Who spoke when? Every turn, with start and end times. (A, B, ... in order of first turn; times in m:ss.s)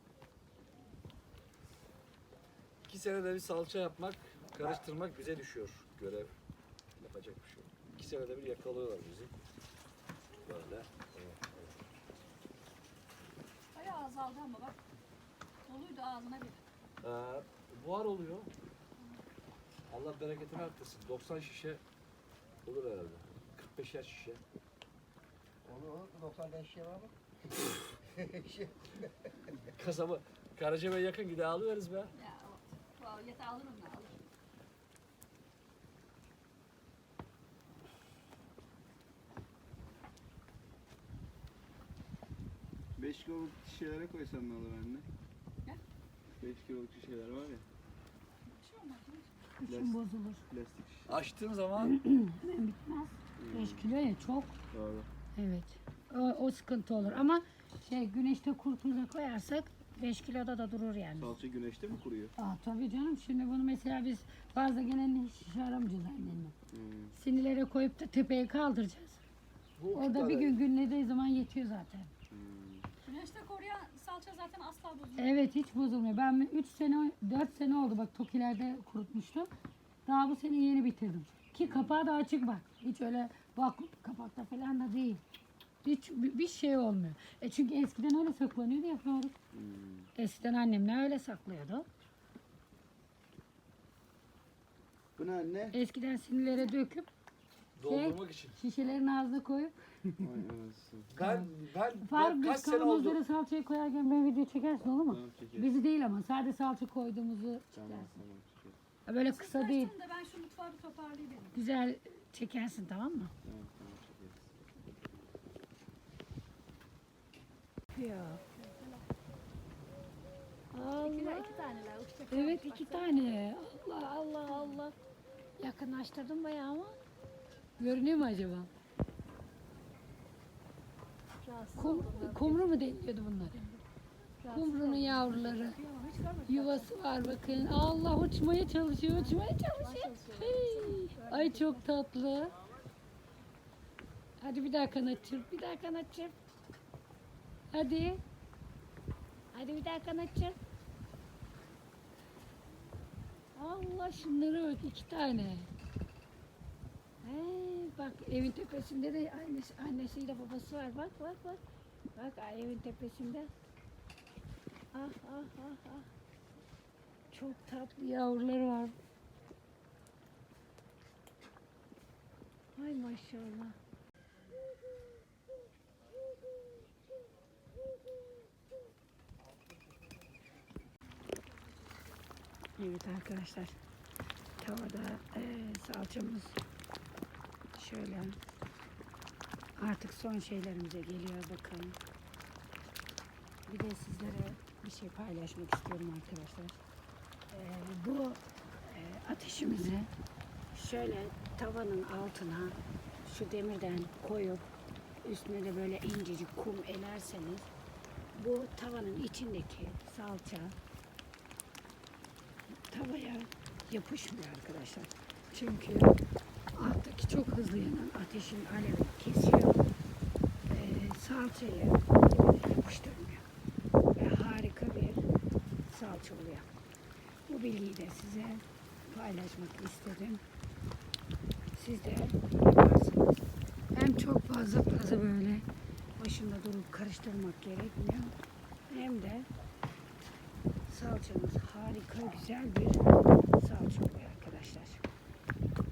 0:02.9-0:06.3 A
0:07.0-0:09.3 A
0:10.5-0:11.5 A
0:13.7-0:14.8 B
0:15.7-0:16.6 B
0:17.0-0:18.5 A
0:19.9-0:21.8 A
0:22.6-0:24.4 A
0:25.6-0:27.1 C
0:28.1-0:29.1 C
0:29.8-0:32.1 A
0:32.1-0:34.2 B
0:43.0-0:45.1 D
0:46.4-0:47.6 D
0:48.5-0:49.4 B
0:49.6-0:50.4 E
0:49.7-0:51.3 D
0:51.1-0:52.0 A
0:51.8-0:54.5 E
0:53.4-0:53.9 D
0:54.7-0:55.1 D
0:55.4-1:01.4 E
1:01.2-1:02.3 D
1:02.4-1:06.6 E
1:06.7-1:07.1 D
1:07.1-1:09.2 E
1:09.9-1:12.1 E
1:10.0-1:10.5 C
1:12.3-1:12.9 D
1:13.0-1:15.3 B
1:15.2-1:19.5 E
1:20.0-1:25.2 E
1:21.6-1:22.0 D
1:25.8-1:29.3 E
1:29.5-1:30.1 D
1:30.2-1:31.9 E
1:35.2-1:35.8 D
1:35.7-1:37.1 E
1:37.8-1:38.6 A
1:37.8-1:40.2 E
1:40.2-1:41.2 D
1:41.1-1:43.2 A
1:41.2-1:41.5 E
1:42.0-1:48.1 E
1:45.1-1:45.7 D
1:47.7-1:48.8 D
1:49.1-1:49.9 E
1:49.2-1:51.6 B
1:51.5-1:53.3 E
1:53.4-1:54.4 D
1:57.9-1:58.4 E
1:58.5-1:59.1 B
2:00.7-2:01.5 E
2:01.0-2:03.4 B
2:02.3-2:04.9 E
2:04.5-2:04.8 B
2:05.6-2:07.0 E
2:07.8-2:08.7 E
2:11.4-2:12.7 B
2:11.8-2:13.6 E
2:14.4-2:16.9 B
2:14.5-2:15.8 E
2:16.5-2:22.6 E
2:19.1-2:21.9 B
2:24.4-2:26.4 E
2:27.7-2:28.2 E
2:29.5-2:30.6 E
2:33.6-2:35.7 E
2:37.2-2:41.6 E
2:42.2-2:43.5 E
2:44.9-2:46.1 E
2:47.3-2:49.0 E
2:52.8-2:53.8 E
3:02.8-3:03.8 E
3:04.6-3:06.6 E
3:07.8-3:08.4 E
3:09.8-3:12.0 E
3:13.7-3:16.8 E
3:17.5-3:20.1 E
3:20.7-3:24.6 E
3:25.2-3:27.7 E
3:28.4-3:30.8 E
3:32.9-3:36.2 E
3:36.8-3:39.9 E
3:40.7-3:43.4 E
3:44.2-3:45.3 E
3:45.9-3:46.7 E
3:47.5-3:50.4 E
3:51.7-3:53.4 E
3:53.9-3:55.6 E
3:56.2-3:58.3 E
3:58.9-3:59.5 E
4:00.9-4:03.0 E
4:03.6-4:05.0 E